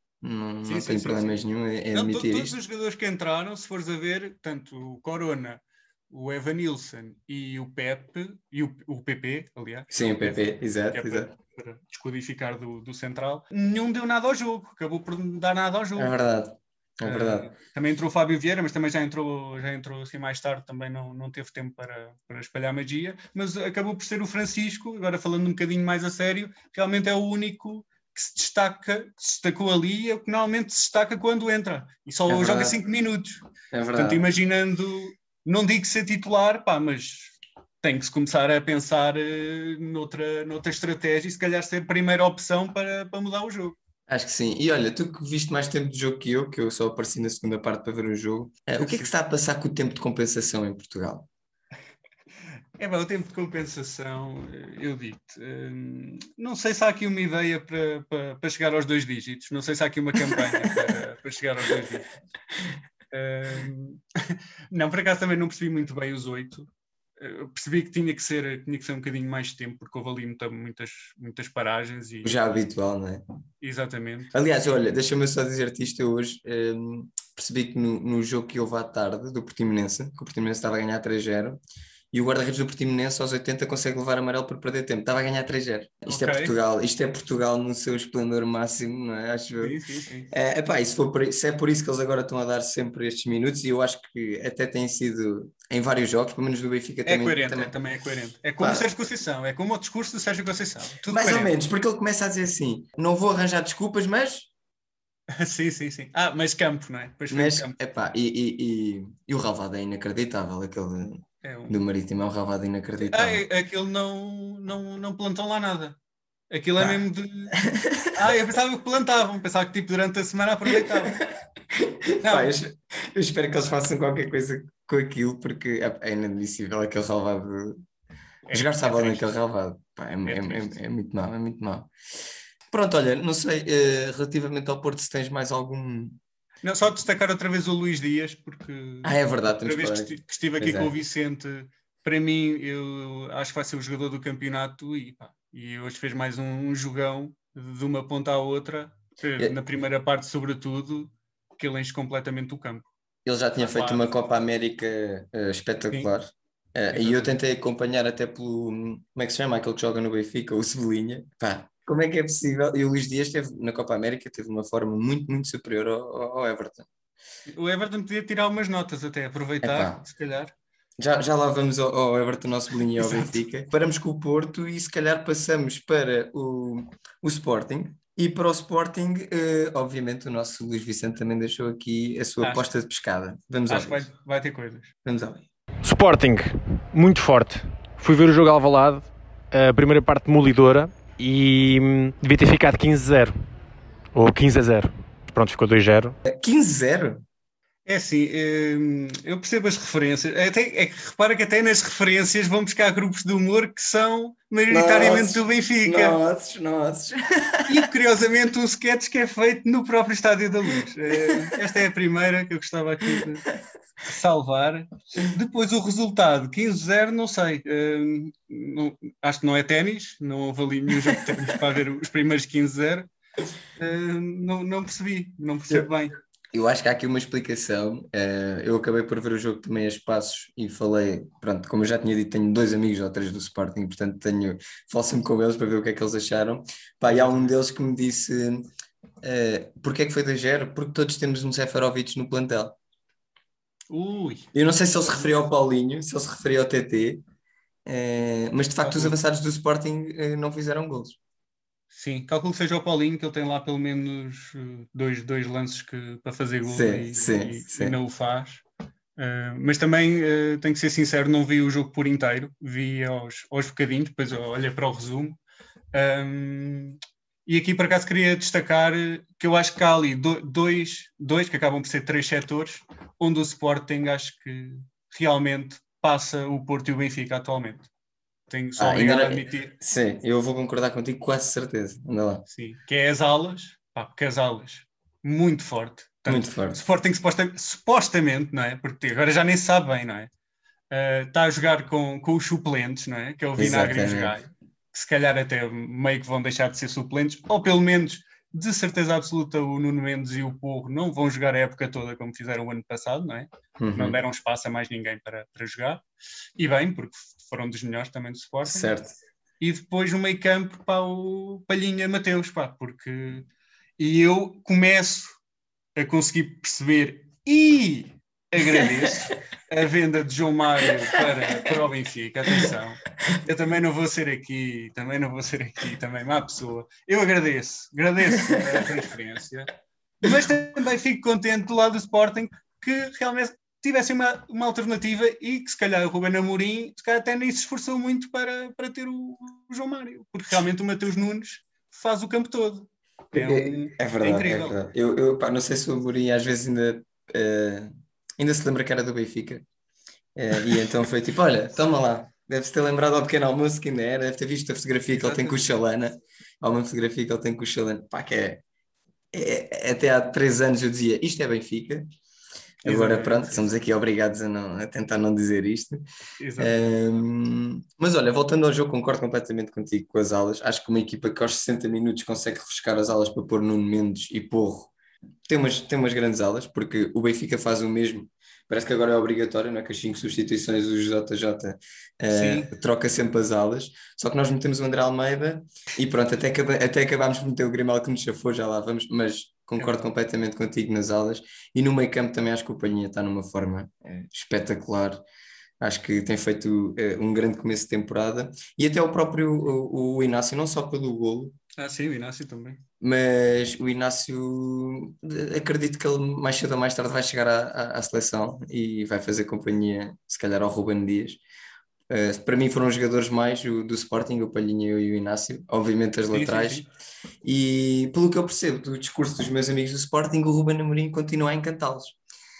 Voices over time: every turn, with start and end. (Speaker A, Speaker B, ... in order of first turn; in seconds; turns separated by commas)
Speaker A: 0.2-2.6, Speaker B: 0.6-16.1, Speaker A: 9.9-11.3, Speaker A: 15.9-17.5, Speaker B: 17.0-33.4, Speaker A: 32.3-32.8, Speaker A: 33.7-34.2, Speaker B: 33.9-43.8, Speaker A: 44.1-51.3, Speaker B: 48.8-49.1, Speaker B: 52.8-62.1, Speaker A: 60.2-60.9, Speaker B: 63.1-66.7, Speaker B: 67.2-72.4, Speaker A: 72.2-73.2, Speaker B: 73.6-74.3, Speaker A: 74.3-81.6, Speaker A: 82.1-89.8, Speaker B: 86.1-86.6, Speaker B: 89.6-90.3, Speaker A: 90.3-97.7, Speaker B: 97.0-101.5, Speaker A: 98.6-98.9, Speaker A: 101.1-104.5, Speaker B: 105.3-107.8, Speaker A: 107.3-113.5, Speaker B: 111.4-111.8, Speaker B: 113.0-116.0, Speaker B: 116.5-117.6, Speaker A: 117.6-118.1, Speaker B: 118.1-121.2, Speaker A: 120.7-127.8, Speaker B: 122.2-122.5, Speaker B: 128.5-129.3, Speaker A: 128.5-131.9, Speaker B: 130.2-130.8, Speaker A: 132.7-136.2, Speaker B: 136.6-152.9, Speaker A: 139.0-140.9, Speaker A: 153.2-166.9, Speaker B: 153.6-154.1, Speaker B: 156.9-157.3, Speaker B: 167.5-170.5, Speaker A: 169.6-170.0, Speaker A: 171.0-184.1, Speaker B: 173.0-173.4, Speaker B: 182.4-182.7, Speaker B: 183.7-184.9, Speaker A: 185.0-185.4, Speaker C: 185.8-193.3, Speaker C: 194.1-196.1, Speaker A: 196.2-197.2, Speaker B: 197.8-206.2, Speaker A: 204.7-207.8, Speaker B: 207.7-213.4, Speaker B: 214.0-223.1, Speaker A: 221.1-221.5, Speaker B: 223.8-226.2, Speaker A: 226.5-238.7, Speaker B: 237.1-237.6, Speaker A: 239.2-242.8, Speaker B: 243.9-245.4, Speaker A: 244.5-247.2, Speaker A: 247.8-251.2, Speaker B: 248.8-249.2, Speaker B: 251.9-258.6, Speaker A: 256.6-257.9, Speaker B: 259.2-265.4, Speaker B: 265.9-277.9, Speaker B: 278.5-279.7, Speaker A: 278.8-282.4, Speaker B: 282.5-290.3, Speaker A: 286.2-286.8, Speaker B: 290.9-306.0, Speaker A: 293.6-294.4, Speaker A: 303.8-304.2, Speaker B: 306.6-308.9, Speaker A: 308.6-309.1, Speaker B: 309.6-313.4, Speaker B: 314.0-315.4, Speaker B: 315.9-344.8, Speaker A: 320.8-321.7, Speaker A: 328.3-328.8, Speaker A: 343.3-349.6, Speaker A: 350.4-358.6, Speaker B: 355.1-355.7, Speaker A: 359.3-362.1, Speaker B: 362.8-363.7, Speaker A: 362.8-366.0, Speaker B: 366.4-367.0, Speaker A: 366.6-374.9, Speaker A: 375.5-395.2, Speaker B: 382.3-382.7, Speaker B: 389.8-390.1, Speaker A: 395.8-401.6, Speaker B: 401.8-402.8, Speaker A: 403.0-411.4, Speaker A: 412.1-416.8, Speaker B: 416.3-416.9, Speaker A: 417.4-422.2